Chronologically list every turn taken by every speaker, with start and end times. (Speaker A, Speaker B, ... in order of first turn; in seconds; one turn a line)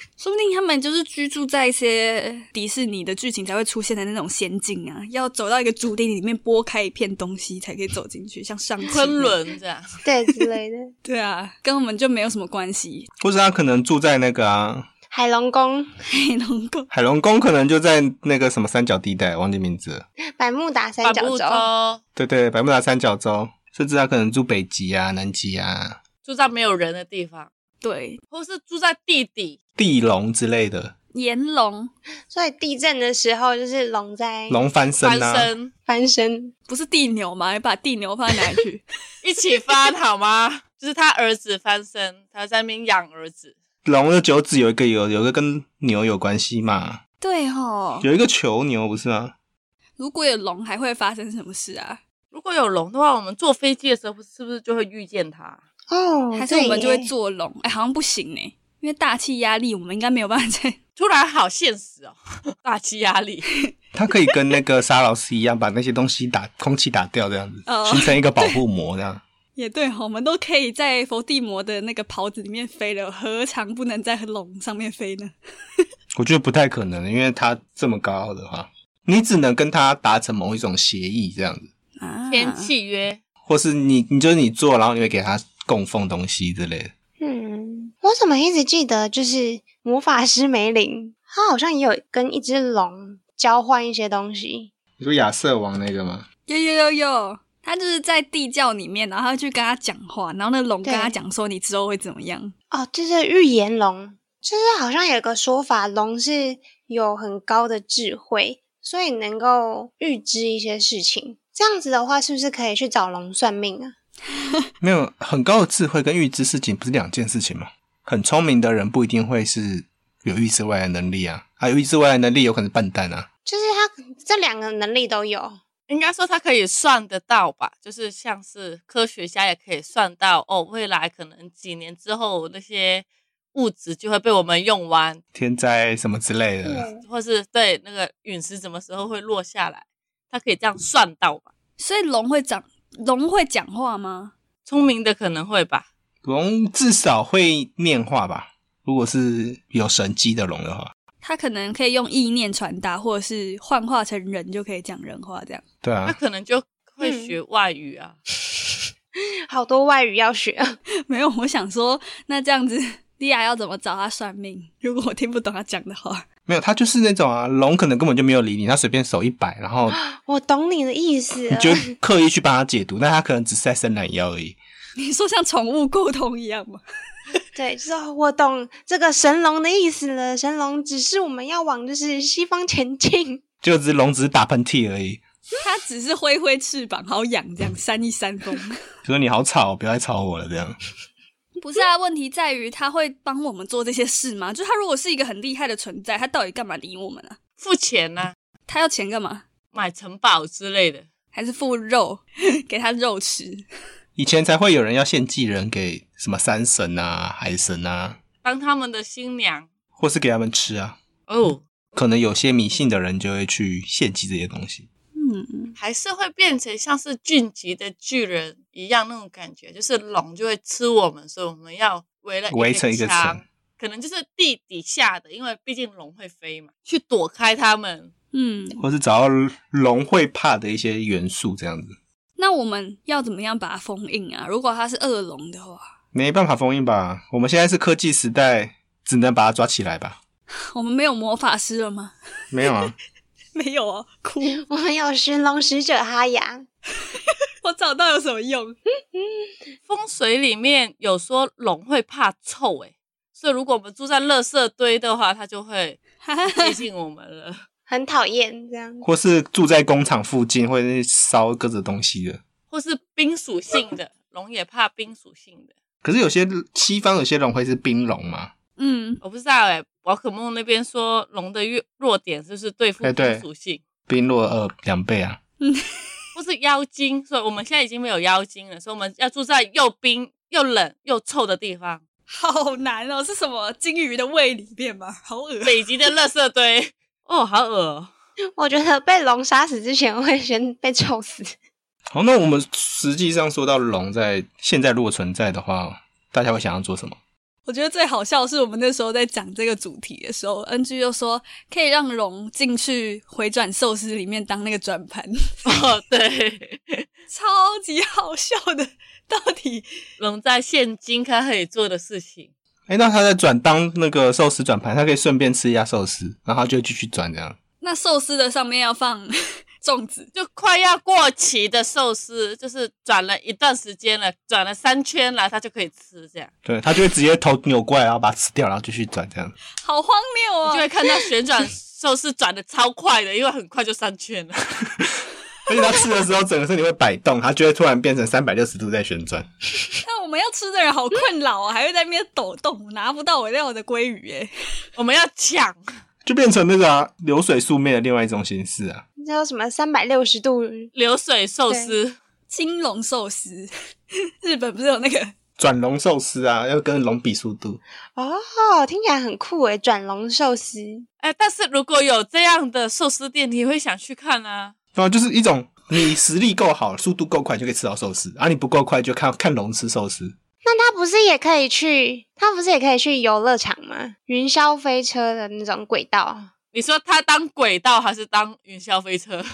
Speaker A: 0.2-9.4
Speaker B: 8.9-9.8
Speaker C: 10.0-10.9
Speaker A: 11.1-13.1
Speaker D: 13.2-14.9
Speaker C: 15.1-15.9
Speaker A: 16.1-16.9
Speaker D: 16.9-20.1
Speaker C: 20.4-21.6
Speaker B: 21.0-22.0
Speaker D: 22.1-26.0
Speaker B: 26.2-27.5
Speaker A: 27.8-28.2
Speaker B: 28.3-29.6
Speaker D: 29.8-30.9
Speaker A: 31.1-31.9
Speaker C: 32.3-34.6
Speaker D: 34.5-35.5
Speaker B: 35.0-35.7
Speaker C: 35.9-36.5
Speaker A: 36.7-38.8
Speaker B: 39.2-43.6
Speaker D: 43.9-47.0
Speaker A: 47.2-48.1
Speaker D: 48.0-49.3
Speaker A: 50.0-52.0
Speaker B: 52.3-55.6
Speaker C: 55.9-57.1
Speaker A: 56.4-60.8
Speaker B: 61.0-63.5
Speaker D: 63.9-69.2
Speaker A: 67.7-68.6
Speaker A: 69.6-75.3
Speaker D: 76.1-81.7
Speaker A: 82.0-82.7
Speaker B: 82.3-83.2
Speaker D: 83.5-86.9
Speaker C: 87.2-94.7
Speaker D: 95.0-96.2
Speaker A: 96.5-102.5
Speaker C: 100.8-101.1
Speaker C: 102.7-113.9
Speaker D: 114.8-123.3
Speaker C: 123.5-125.6
Speaker B: 125.9-135.2
Speaker D: 135.3-136.9
Speaker C: 136.6-137.0
Speaker B: 137.1-141.5
Speaker A: 141.8-144.3
Speaker B: 144.7-145.9
Speaker D: 146.2-150.9
Speaker A: 151.2-155.6
Speaker D: 155.8-156.2
Speaker B: 156.1-158.2
Speaker C: 157.0-157.3
Speaker C: 159.5-160.8
Speaker A: 161.1-166.2
Speaker D: 166.5-170.0
Speaker C: 169.9-171.9
Speaker D: 171.5-174.6
Speaker A: 175.0-176.8
Speaker C: 177.6-183.4
Speaker D: 183.6-185.2
Speaker A: 185.6-188.8
Speaker D: 189.1-190.8
Speaker A: 191.6-197.4
Speaker B: 197.6-198.3
Speaker A: 198.7-199.4
Speaker B: 199.7-201.1
Speaker A: 201.3-203.6
Speaker D: 204.2-208.2
Speaker B: 208.4-209.7
Speaker D: 210.0-211.0
Speaker B: 211.3-211.6
Speaker D: 211.9-214.9
Speaker A: 215.2-215.8
Speaker B: 215.8-228.1
Speaker D: 222.5-223.4
Speaker A: 228.3-228.8
Speaker D: 228.8-231.9
Speaker A: 232.4-235.9
Speaker D: 236.1-240.2
Speaker A: 240.7-242.8
Speaker D: 242.5-242.9
Speaker A: 243.6-244.6
Speaker C: 244.5-246.7
Speaker A: 247.6-248.8
Speaker C: 249.1-249.5
Speaker B: 249.9-257.6
Speaker A: 256.2-256.8
Speaker C: 257.9-259.1
Speaker D: 259.0-262.4
Speaker B: 262.7-265.7
Speaker D: 266.0-268.5
Speaker A: 268.8-269.2
Speaker B: 269.2-273.8
Speaker D: 273.0-273.4
Speaker D: 274.1-275.4
Speaker A: 275.6-275.9
Speaker B: 276.4-282.0
Speaker A: 282.3-285.8
Speaker B: 285.6-288.1
Speaker C: 288.6-291.6
Speaker D: 292.1-297.2
Speaker A: 297.7-305.8
Speaker B: 305.6-307.1
Speaker A: 307.3-310.0
Speaker B: 310.2-312.5
Speaker D: 312.9-317.6
Speaker A: 317.8-320.3
Speaker B: 320.4-326.5
Speaker D: 326.6-329.6
Speaker A: 329.8-331.3
Speaker B: 330.6-334.7
Speaker D: 335.6-339.5
Speaker A: 340.0-344.5
Speaker B: 344.9-345.8
Speaker D: 346.2-349.0
Speaker C: 349.2-350.9
Speaker B: 350.9-352.1
Speaker C: 351.7-351.9
Speaker A: 352.5-353.7
Speaker A: 354.4-355.3
Speaker D: 355.6-357.8
Speaker C: 358.1-361.1
Speaker B: 361.2-364.7
Speaker D: 364.9-370.4
Speaker C: 370.6-376.5
Speaker B: 376.7-379.4